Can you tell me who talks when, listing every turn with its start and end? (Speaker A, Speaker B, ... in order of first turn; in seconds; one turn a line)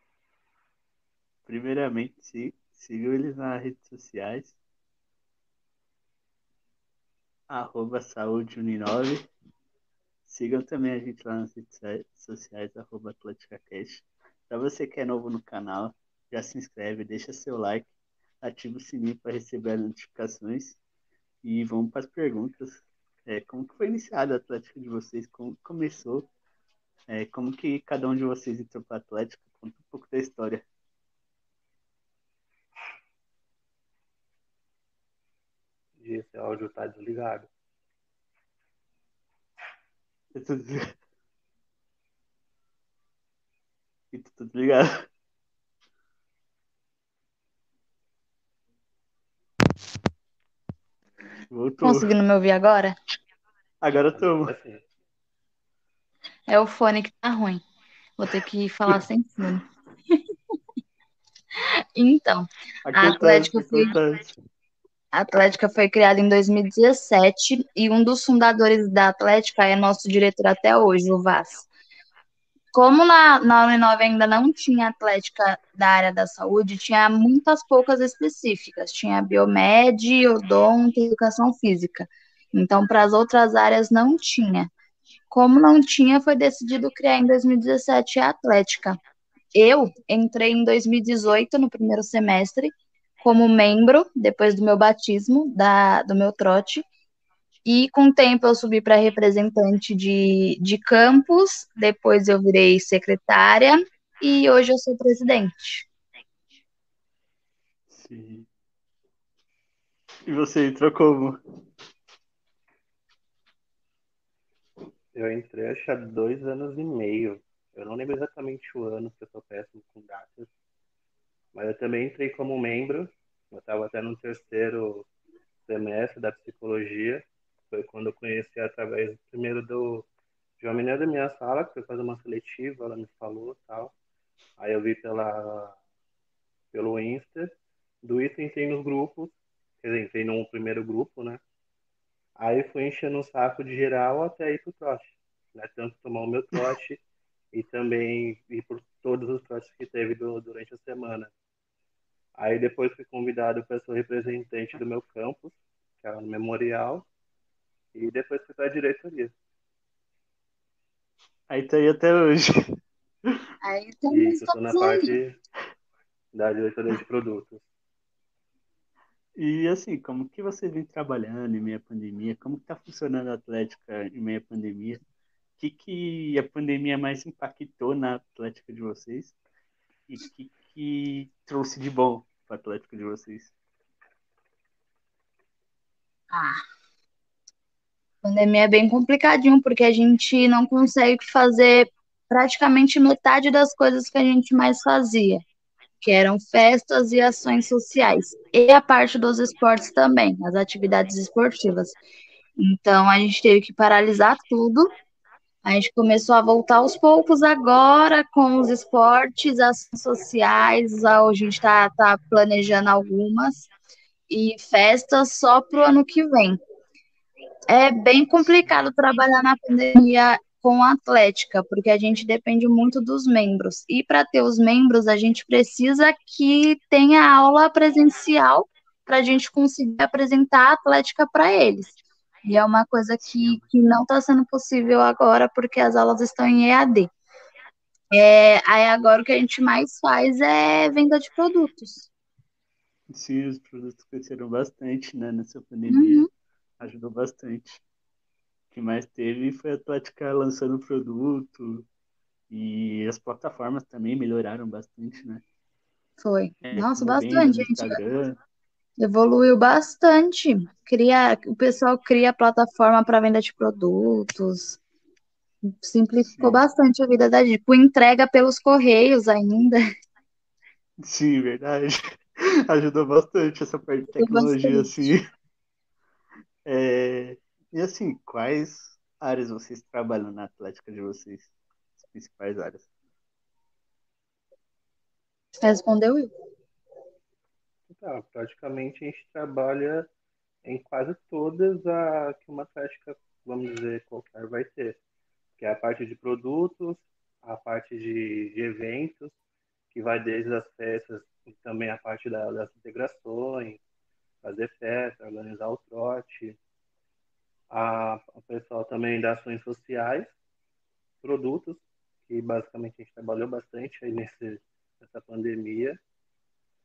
Speaker A: 1.4-4.5
Speaker A: 7.5-9.2
Speaker A: 10.2-17.9
Speaker A: 18.4-20.8
Speaker A: 21.4-26.3
Speaker A: 27.1-30.6
Speaker B: 36.0-37.5
Speaker A: 40.3-40.9
Speaker A: 44.1-45.0
Speaker A: 51.5-52.1
Speaker C: 51.8-52.9
Speaker A: 53.8-54.5
Speaker B: 54.1-54.8
Speaker C: 56.5-57.6
Speaker C: 58.2-60.2
Speaker C: 61.9-63.9
Speaker A: 62.9-64.4
Speaker C: 65.1-71.7
Speaker C: 72.7-84.7
Speaker C: 85.3-89.0
Speaker C: 89.5-96.8
Speaker C: 97.6-105.9
Speaker A: 107.9-108.5
Speaker A: 110.3-111.4
Speaker B: 115.1-120.5
Speaker B: 121.5-125.0
Speaker B: 125.7-130.1
Speaker B: 130.6-133.9
Speaker B: 134.6-135.7
Speaker B: 136.7-137.5
Speaker B: 138.0-141.4
Speaker B: 142.4-147.0
Speaker B: 147.5-151.3
Speaker B: 152.4-157.1
Speaker B: 157.9-159.3
Speaker A: 161.5-162.5
Speaker C: 163.6-165.1
Speaker B: 164.1-165.3
Speaker B: 166.3-167.6
Speaker A: 169.4-175.0
Speaker A: 175.6-179.3
Speaker A: 180.1-183.5
Speaker C: 186.3-186.6
Speaker C: 188.2-195.4
Speaker C: 196.0-202.0
Speaker C: 202.6-204.9
Speaker C: 205.6-213.7
Speaker C: 214.3-216.6
Speaker C: 217.7-237.1
Speaker A: 233.2-233.6
Speaker C: 238.1-242.1
Speaker A: 243.1-246.3
Speaker C: 245.9-246.3
Speaker A: 246.8-247.8
Speaker A: 248.7-251.8
Speaker A: 252.5-255.4
Speaker C: 256.2-258.0
Speaker A: 256.6-258.4
Speaker C: 259.0-264.8
Speaker C: 265.6-269.8
Speaker A: 266.3-266.6
Speaker A: 271.0-275.2
Speaker C: 274.1-275.0
Speaker A: 276.6-282.9
Speaker C: 285.6-286.3
Speaker B: 287.9-290.1
Speaker B: 290.6-295.0
Speaker B: 295.6-299.3
Speaker B: 299.9-303.8
Speaker B: 304.4-306.6
Speaker B: 307.7-310.3
Speaker B: 311.2-316.0